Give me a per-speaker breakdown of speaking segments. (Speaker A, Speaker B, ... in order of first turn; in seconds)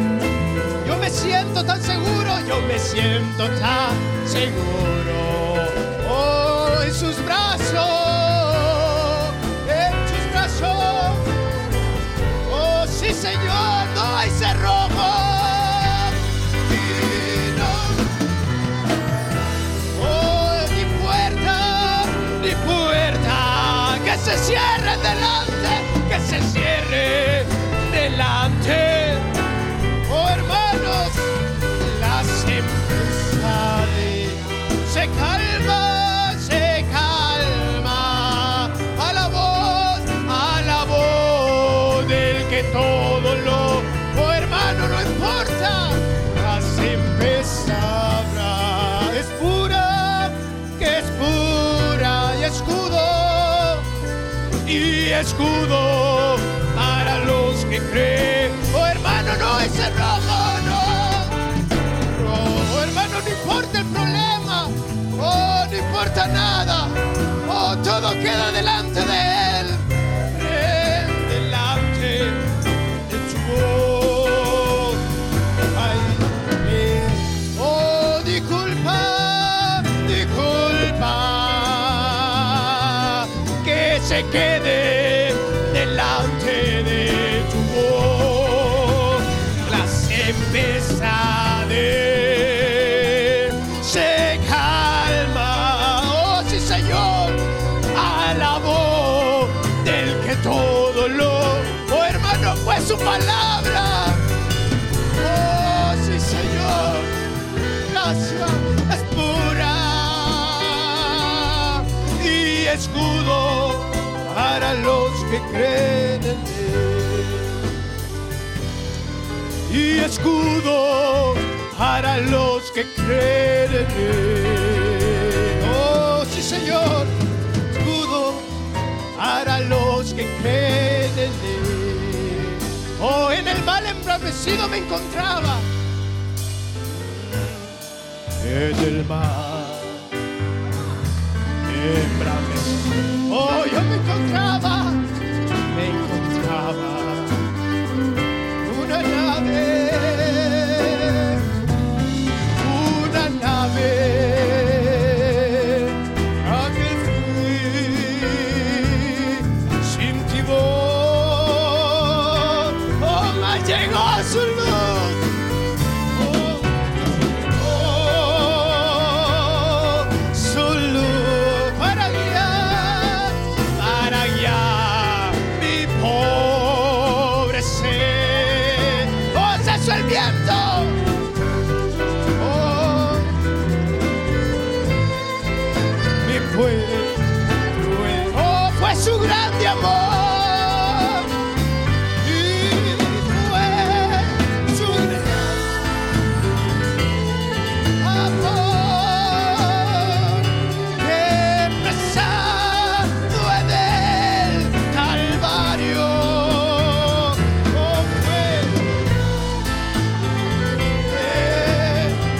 Speaker A: 0.8-11.3, 12.4-18.1, 19.9-29.3, 30.1-53.9, 54.6-61.4, 62.0-72.5, 73.1-75.0, 75.7-104.2, 105.2-107.1, 107.8-117.6, 119.7-127.1, 127.7-128.5, 129.2-135.7, 136.9-137.8, 138.4-140.1, 141.7-145.0, 145.7-147.5, 148.6-151.4, 152.6-165.3, 166.1-181.0, 182.4-183.4, 186.2-191.3, 192.2-196.0, 198.0-209.0, 211.1-212.2